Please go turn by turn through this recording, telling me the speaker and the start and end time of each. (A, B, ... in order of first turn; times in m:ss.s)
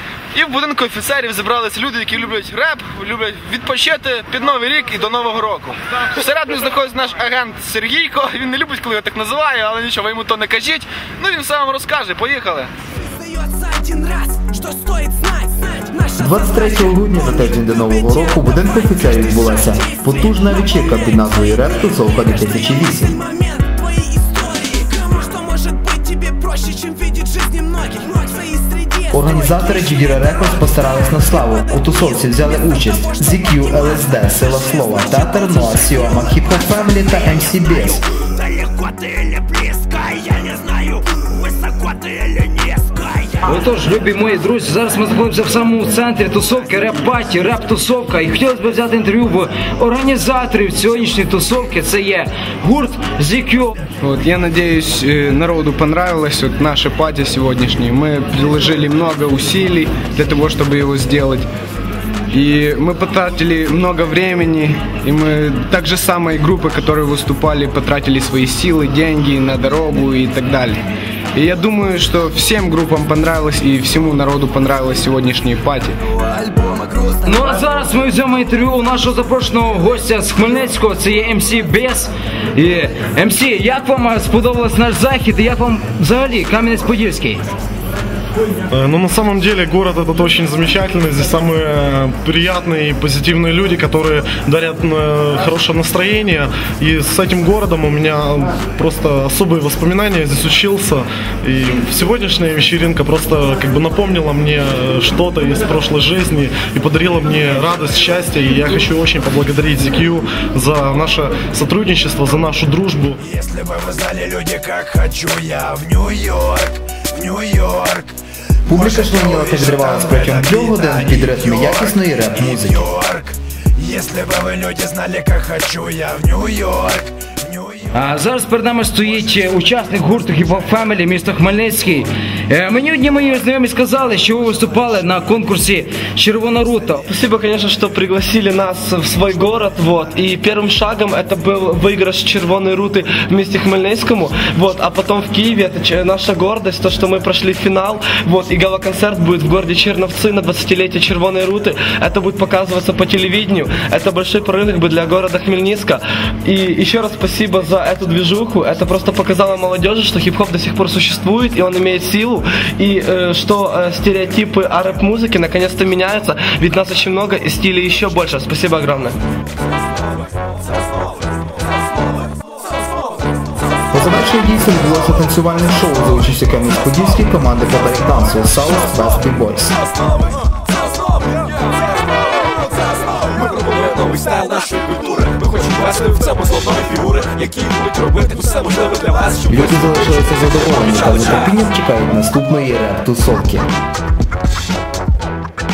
0:00.3-0:12.7 A
0:14.0-0:15.3 B
0:16.2-0:23.2 C
0:25.6-0:25.9 B
0:26.6-0:27.2 B
0:27.8-0:28.0 B
0:29.1-0:38.0 C
0:43.4-0:53.8 D
0:54.0-1:01.5 E
1:02.3-1:10.8 E
1:11.3-1:16.0 E
1:17.2-1:27.4 D
1:28.7-1:53.2 F
1:53.3-1:58.1 B
1:58.7-2:02.9 C
2:02.9-2:07.0 B
2:07.9-2:17.0 D
2:17.1-2:49.2 G
2:53.9-2:59.8 C
3:04.0-3:04.3 B
3:06.7-3:07.3 B
3:09.4-3:13.7 C